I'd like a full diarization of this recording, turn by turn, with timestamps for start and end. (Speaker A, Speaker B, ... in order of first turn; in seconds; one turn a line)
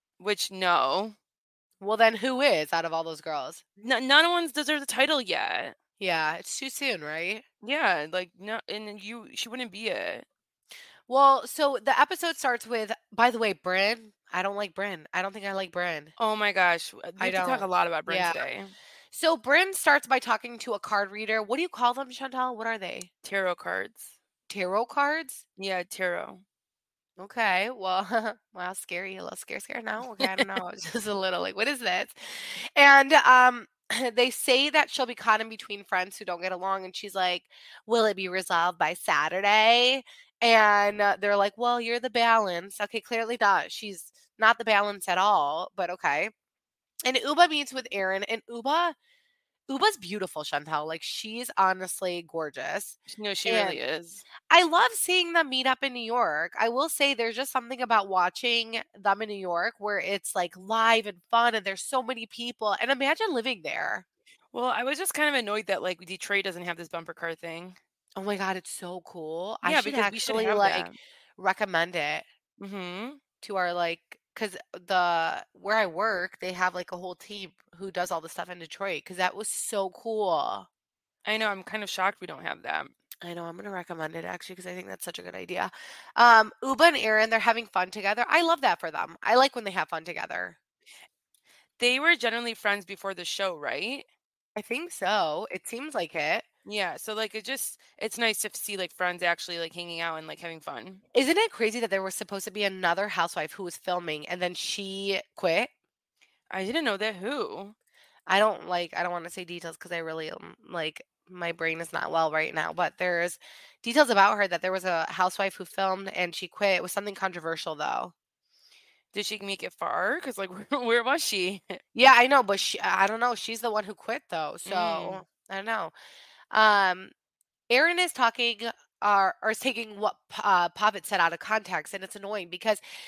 Speaker A: 0.2-1.1
Speaker B: 1.8-3.6
Speaker A: 3.8-5.7
Speaker B: 6.0-7.4
Speaker A: 7.6-10.2
Speaker B: 11.1-16.1
Speaker A: 16.2-18.7
Speaker B: 17.2-18.4
Speaker B: 19.1-23.1
Speaker A: 23.2-24.1
Speaker B: 24.5-25.4
Speaker A: 25.6-26.4
Speaker B: 27.2-46.3
Speaker A: 30.2-30.5
Speaker B: 47.0-49.0
Speaker B: 49.7-53.8
Speaker A: 53.1-54.2
Speaker B: 54.5-64.0
Speaker A: 64.5-67.8
Speaker B: 68.2-72.2
Speaker A: 69.6-70.9
Speaker A: 72.6-73.2
Speaker B: 73.4-80.7
Speaker A: 81.2-82.9
Speaker B: 83.2-90.6
Speaker A: 91.8-94.0
Speaker B: 94.5-96.4
Speaker A: 96.6-101.0
Speaker B: 101.1-105.7
Speaker A: 106.5-107.7
Speaker B: 108.3-118.1
Speaker A: 119.1-121.8
Speaker B: 121.9-125.9
Speaker A: 124.7-125.2
Speaker B: 126.5-127.1
Speaker B: 127.7-132.8